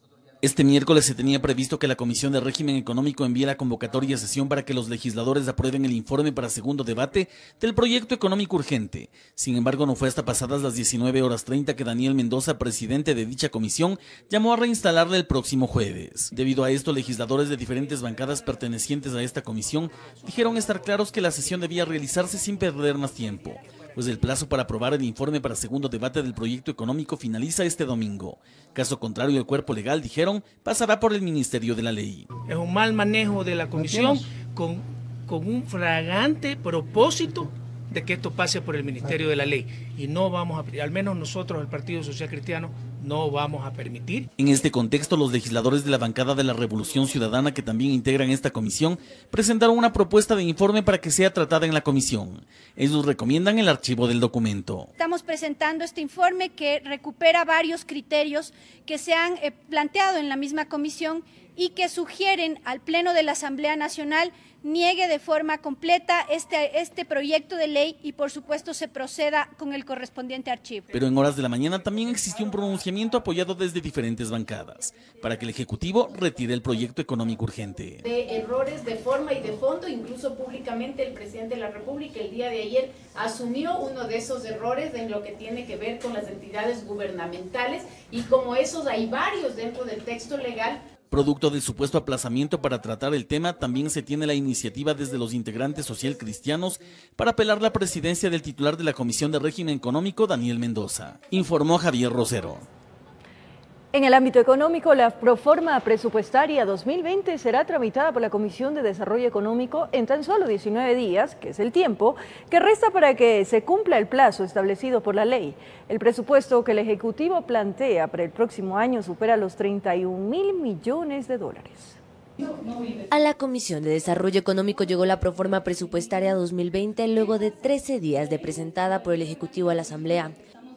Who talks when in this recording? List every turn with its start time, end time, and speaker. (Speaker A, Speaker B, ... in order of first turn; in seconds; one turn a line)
Speaker A: 0.4-32.3
Speaker B: 32.5-44.3
Speaker A: 44.4-54.9
Speaker C: 55.0-70.9
Speaker A: 70.9-78.1
Speaker D: 78.0-90.8
Speaker A: 91.1-102.7
Speaker E: 103.9-122.0
Speaker F: 123.1-130.4